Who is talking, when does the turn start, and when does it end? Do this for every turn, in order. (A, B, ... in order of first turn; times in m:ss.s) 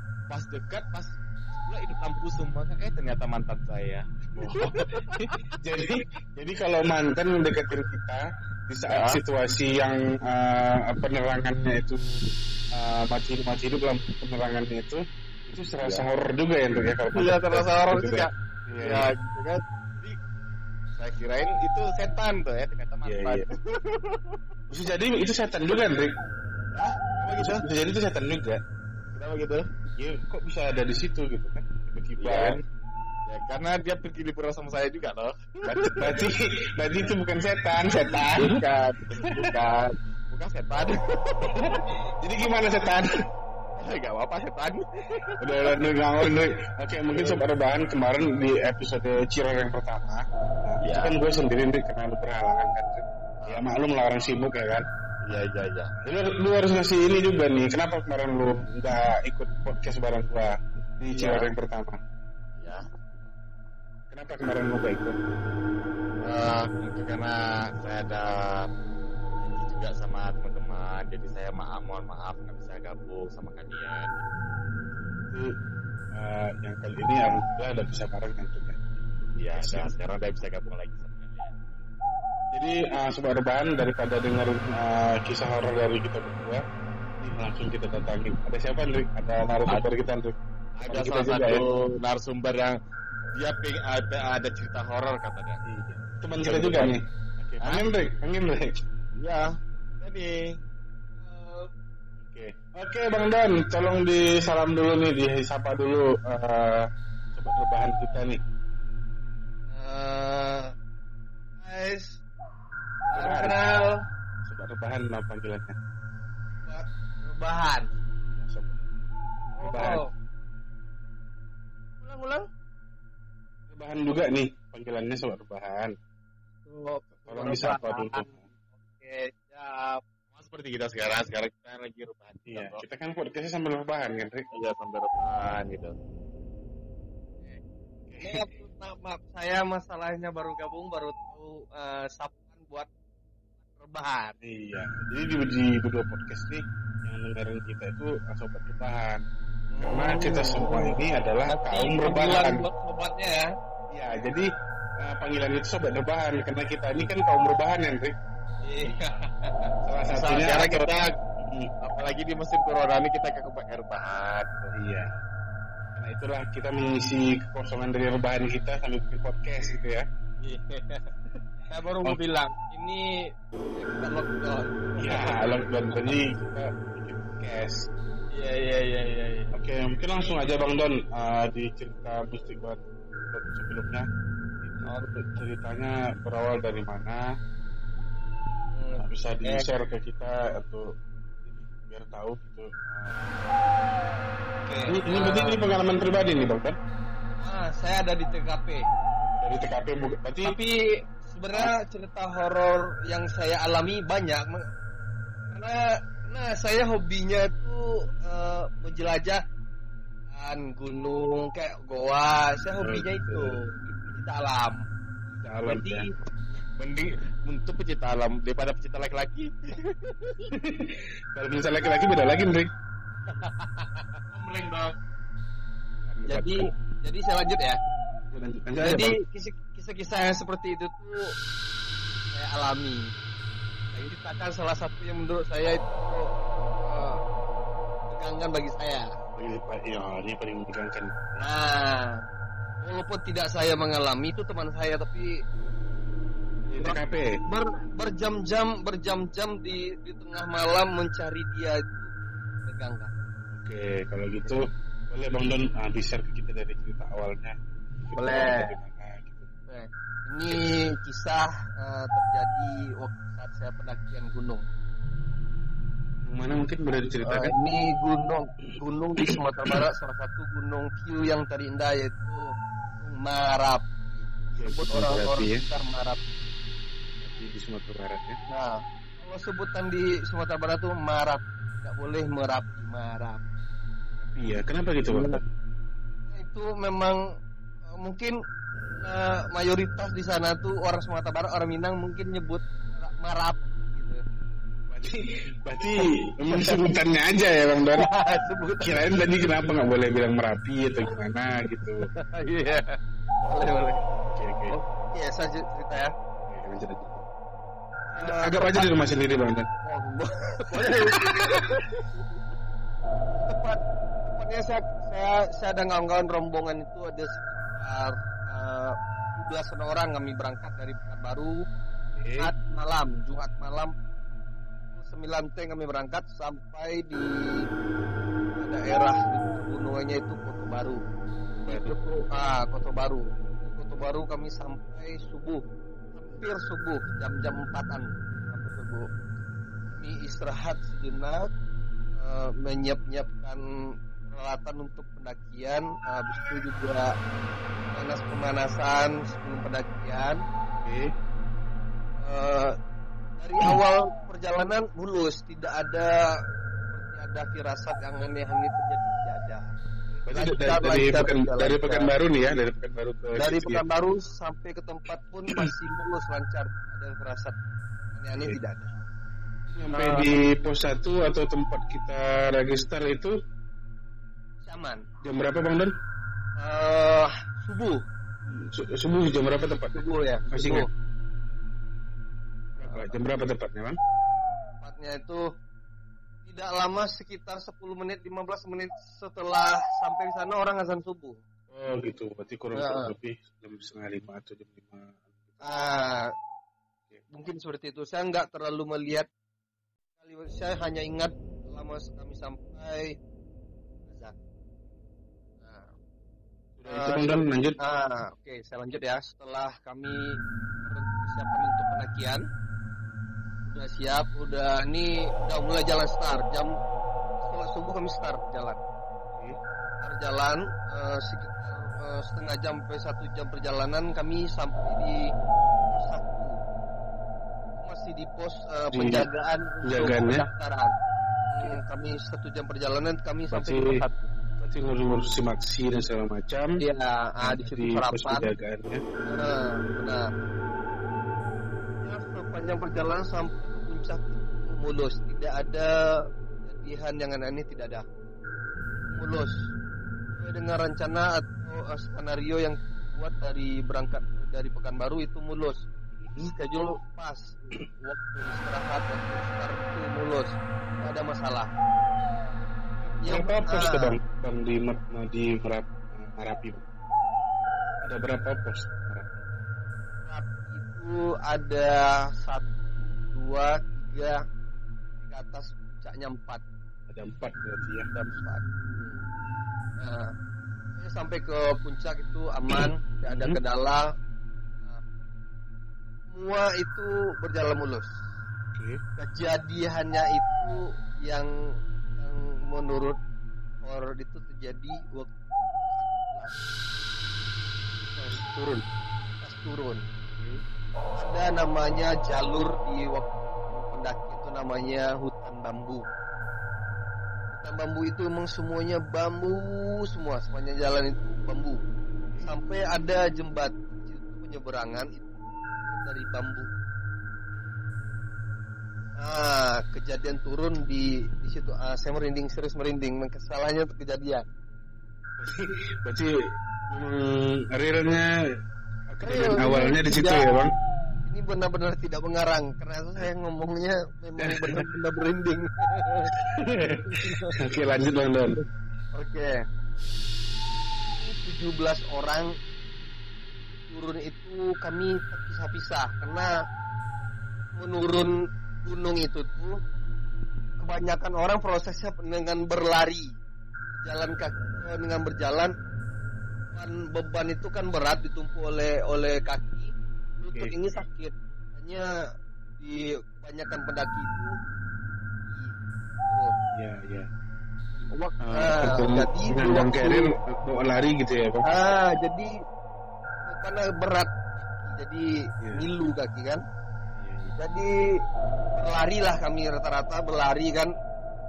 0:00.3-0:05.3 A
0:04.4-0:12.0 B
0:08.9-0:09.2 A
0:12.7-0:19.1 B
0:17.1-0:20.2 A
0:20.9-0:24.3 A
0:23.0-0:23.5 B
0:24.7-0:26.1 B
0:26.7-0:27.6 A
0:27.3-0:28.6 B
0:29.1-0:29.7 A
0:29.9-0:32.6 B
0:32.2-0:32.6 A
0:33.3-0:36.2 A
0:35.9-0:38.6 B
0:38.2-0:41.8 A
0:39.2-0:39.5 B
0:41.5-0:43.1 B
0:43.8-0:46.3 A
0:45.4-0:54.8 B
0:47.1-0:47.4 A
0:50.8-0:51.2 A
0:55.2-0:55.9 A
0:56.0-1:02.0 B
1:01.1-1:01.5 A
1:02.6-1:02.8 A
1:04.1-1:05.2 B
1:06.2-1:08.7 A
1:09.4-1:14.2 A
1:15.2-1:15.5 B
1:16.1-1:19.0 B
1:19.4-1:21.5 A
1:19.5-1:19.9 B
1:22.5-1:26.6 B
1:27.2-1:31.6 B
1:30.8-1:32.8 A
1:33.3-1:35.6 A
1:35.6-1:38.8 B
1:36.4-1:37.0 A
1:37.6-1:37.8 A
1:39.2-1:40.5 A
1:41.2-1:41.7 C
1:42.2-1:48.4 B
1:49.7-1:50.7 C
1:51.6-1:52.2 C
1:53.0-1:54.0 C
1:53.1-1:53.6 B
1:54.4-1:55.8 B
1:56.6-1:57.9 C
1:58.4-1:58.8 B
1:59.6-2:00.1 C
1:59.6-2:00.0 B
2:02.0-2:02.4 C
2:03.7-2:05.9 B
2:06.6-2:10.0 C
2:07.3-2:08.3 B
2:10.3-2:12.8 A
2:12.5-2:14.4 B
2:14.5-2:15.9 A
2:18.0-2:18.5 B
2:18.2-2:22.9 C
2:23.8-2:24.4 C
2:24.4-2:29.2 B
2:29.7-2:30.9 C
2:29.8-2:32.6 B
2:31.4-2:33.5 C
2:33.9-2:34.5 B
2:35.0-2:38.1 B
2:38.6-2:39.7 C
2:39.8-2:41.7 B
2:40.1-2:41.2 A
2:41.8-2:44.8 A
2:44.7-2:45.1 B
2:45.9-2:50.1 B
2:50.5-2:50.8 C
2:51.7-2:53.2 C
2:53.7-2:55.9 C
2:55.0-2:57.9 B
2:58.3-2:59.5 C
2:59.5-3:04.1 B
3:04.6-3:07.3 B
3:08.7-3:09.6 C
3:09.0-3:10.9 B
3:11.4-3:13.6 B
3:14.6-3:15.6 C
3:14.8-3:16.8 B
3:17.4-3:18.8 C
3:19.4-3:20.6 B
3:20.4-3:24.7 C
3:25.5-3:29.4 C
3:30.3-3:34.9 C
3:32.8-3:34.1 B
3:35.4-3:36.1 B
3:35.6-3:36.0 C
3:36.7-3:39.5 A
3:40.5-3:42.7 B
3:43.3-3:44.9 C
3:46.1-3:46.7 B
3:46.2-3:47.8 C
3:48.3-3:49.2 B
3:48.8-3:51.3 C
3:52.3-3:53.1 C
3:53.9-3:57.2 C
3:58.1-3:59.1 C
3:59.3-4:01.4 B
4:01.4-4:02.2 C
4:02.8-4:05.3 C
4:06.6-4:07.3 B
4:06.8-4:12.1 C
4:12.6-4:13.1 C
4:13.5-4:19.5 B
4:18.1-4:18.7 C
4:19.7-4:24.6 C
4:26.2-4:27.5 B
4:27.2-4:36.2 C
4:29.2-4:29.8 B
4:34.6-4:35.6 B
4:37.2-4:38.4 B
4:38.5-4:43.4 C
4:44.2-4:45.4 B
4:45.1-4:45.4 C
4:46.3-4:47.2 C
4:47.9-4:48.4 C
4:49.0-4:54.2 C
4:54.9-4:58.1 B
4:56.5-4:56.8 C
4:58.0-4:59.1 C
4:58.8-5:02.1 B
5:02.1-5:04.0 C
5:04.3-5:04.8 B
5:04.7-5:06.1 C
5:06.5-5:07.3 B
5:08.1-5:09.7 B
5:08.1-5:08.9 C
5:09.8-5:12.0 C
5:10.7-5:11.8 B
5:13.4-5:21.6 C
5:22.2-5:22.5 B
5:22.4-5:23.9 C
5:24.9-5:27.7 C
5:28.6-5:31.0 C
5:31.6-5:31.9 B
5:31.7-5:35.6 C
5:36.1-5:39.1 C
5:39.9-5:41.5 C
5:42.2-5:43.6 C
5:44.3-5:47.1 C
5:47.9-5:50.4 C
5:50.8-5:51.1 B
5:52.2-5:52.8 C
5:53.4-5:56.3 C
5:56.9-5:59.7 C
6:00.2-6:03.8 B
6:00.3-6:02.1 C
6:03.4-6:07.6 C
6:08.1-6:08.9 C
6:09.7-6:13.3 B
6:09.9-6:10.3 C
6:14.6-6:15.0 C
6:15.2-6:15.9 B
6:16.6-6:18.0 C
6:18.5-6:20.9 B
6:19.9-6:20.9 C
6:22.7-6:24.0 B
6:22.8-6:23.1 C
6:24.8-6:25.5 C
6:26.4-6:31.4 C
6:31.7-6:35.8 B
6:32.7-6:33.1 C
6:35.6-6:36.3 C
6:37.3-6:39.3 C
6:40.2-6:43.2 C
6:44.1-6:44.3 C
6:45.6-6:45.9 C
6:46.8-6:47.8 B
6:46.9-6:52.4 C
6:53.6-6:56.7 C
6:57.4-6:58.8 C
6:59.3-6:59.6 B
7:00.0-7:05.3 C
7:05.9-7:06.6 C
7:07.8-7:14.3 C
7:08.9-7:09.3 B
7:09.8-7:10.4 B
7:13.5-7:14.0 B
7:14.6-7:16.8 B
7:16.8-7:18.5 C
7:17.4-7:19.0 B
7:19.3-7:20.3 C
7:22.0-7:26.0 C
7:26.6-7:28.0 C
7:29.1-7:29.6 C
7:30.4-7:35.8 C
7:36.2-7:36.5 B
7:36.4-7:41.7 C
7:43.0-7:46.8 B
7:43.2-7:44.2 C
7:48.0-7:49.4 B
7:50.2-7:54.4 C
7:55.2-7:56.6 C
7:57.1-7:58.1 B
7:58.1-7:59.2 C
8:00.0-8:00.3 C
8:01.0-8:04.1 C
8:02.7-8:03.6 B
8:06.3-8:08.1 C
8:08.7-8:09.0 B
8:09.2-8:11.5 C
8:12.2-8:13.2 C
8:13.8-8:16.6 C
8:18.2-8:18.8 B
8:19.4-8:20.0 C
8:20.3-8:20.6 B
8:21.2-8:26.1 C
8:27.5-8:31.8 C
8:32.4-8:35.4 C
8:35.9-8:36.7 C
8:39.2-8:44.4 C
8:45.4-8:46.3 B
8:46.9-8:48.3 B
8:49.1-8:50.7 B
8:49.2-8:50.4 C
8:51.2-8:56.4 C
8:54.4-8:54.8 B
8:56.4-8:58.6 B
8:57.0-8:57.6 C
8:59.1-8:59.6 C
9:01.2-9:02.6 C
9:03.9-9:06.5 C
9:07.8-9:09.8 C
9:10.8-9:13.4 C
9:14.0-9:15.7 C
9:16.7-9:22.1 C
9:20.5-9:20.7 B
9:22.8-9:24.6 C
9:25.5-9:26.6 C
9:26.7-9:27.3 B
9:28.0-9:30.3 C
9:28.4-9:31.7 B
9:31.6-9:32.5 C
9:33.4-9:36.6 C
9:37.2-9:37.5 B
9:37.6-9:38.0 C
9:38.8-9:40.9 C